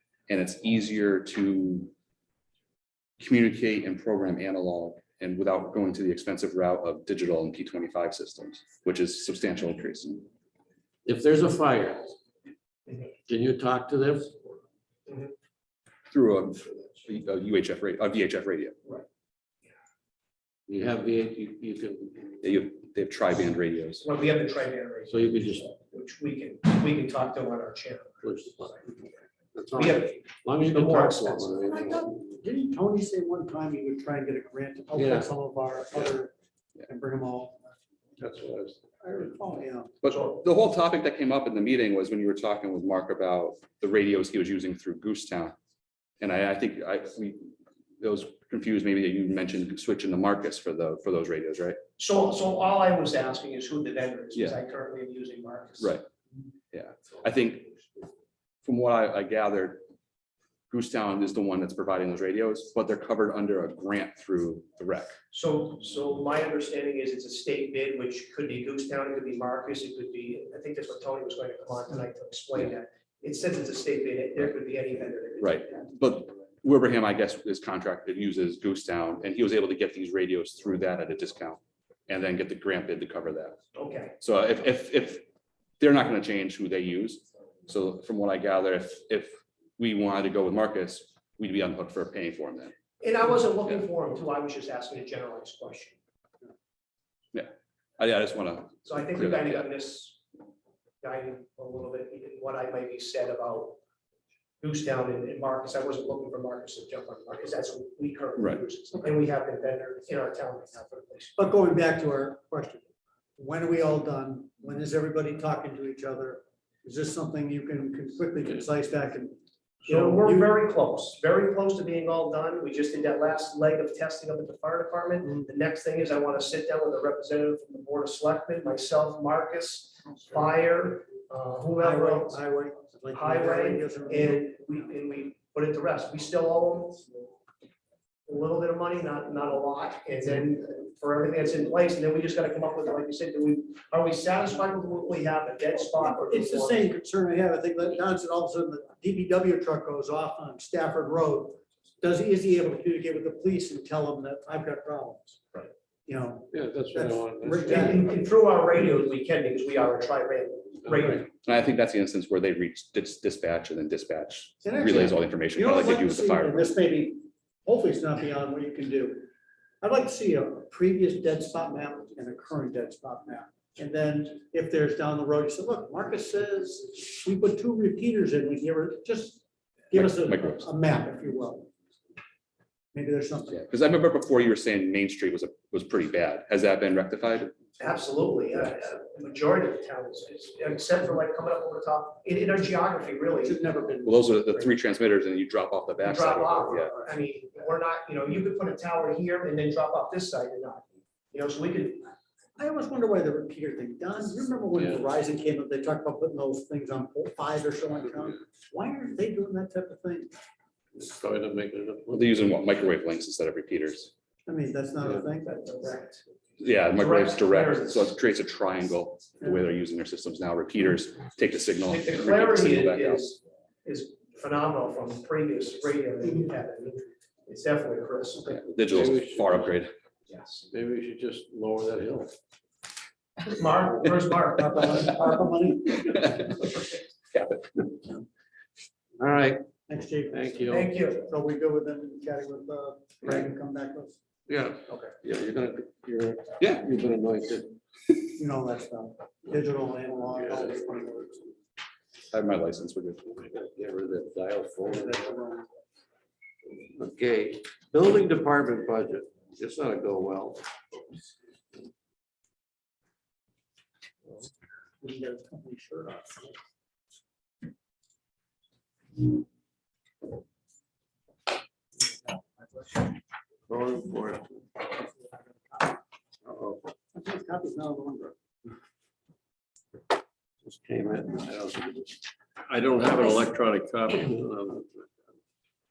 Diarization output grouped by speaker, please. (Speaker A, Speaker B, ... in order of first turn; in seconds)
Speaker A: 0.3-1.9, 3.2-10.2, 16.1-18.8, 22.4-24.1, 40.0-45.5, 46.2-51.8, 54.3-54.6, 55.8-56.0, 56.7-57.8, 58.6-59.8, 60.7-65.2, 75.4-83.6, 84.2-85.2, 85.8-92.7, 97.3-99.7, 108.4-108.6, 161.4-166.7, 179.9-180.7, 183.5-187.5, 194.0-197.0, 212.1-214.1, 216.6-223.2, 228.4-229.9, 237.3-237.8, 252.3-253.2
Speaker B: 11.1-12.2, 13.2-14.4, 20.7-22.4, 25.1-25.7, 28.2-32.4, 34.9-35.3, 38.2-38.8, 156.5-158.1, 160.9-161.2, 210.9-212.5, 228.9-229.7, 230.7-232.3, 239.2-239.7, 240.3-240.9, 244.5-247.8, 250.4-250.8, 253.3-255.3, 256.9-260.6, 273.7-274.6, 276.4-276.8, 280.6-285.1
Speaker C: 24.0-25.2, 25.9-28.2, 29.7-31.5, 52.0-56.0, 65.3-75.8, 83.7-84.1, 93.0-96.0, 98.8-100.2, 101.0-103.8, 104.6-111.3, 119.8-132.4, 133.1-137.1, 138.2-146.9, 157.6-161.3, 187.8-193.6, 196.0-202.1, 215.5-216.0, 217.0-218.0, 221.8-228.6, 230.3-230.6, 233.4-235.1, 240.7-241.2
Speaker D: 31.7-36.3, 36.9-37.6, 39.0-39.9, 111.3-112.8, 113.4-120.5, 131.8-134.4, 145.9-158.1, 164.6-169.3, 169.8-181.7, 182.9-183.6, 193.4-194.7, 202.6-210.3, 214.4-216.2, 234.6-236.5, 239.9-244.2, 248.3-251.5, 254.8-255.7, 265.0-266.6, 272.6-273.0, 275.3-275.8, 277.1-278.4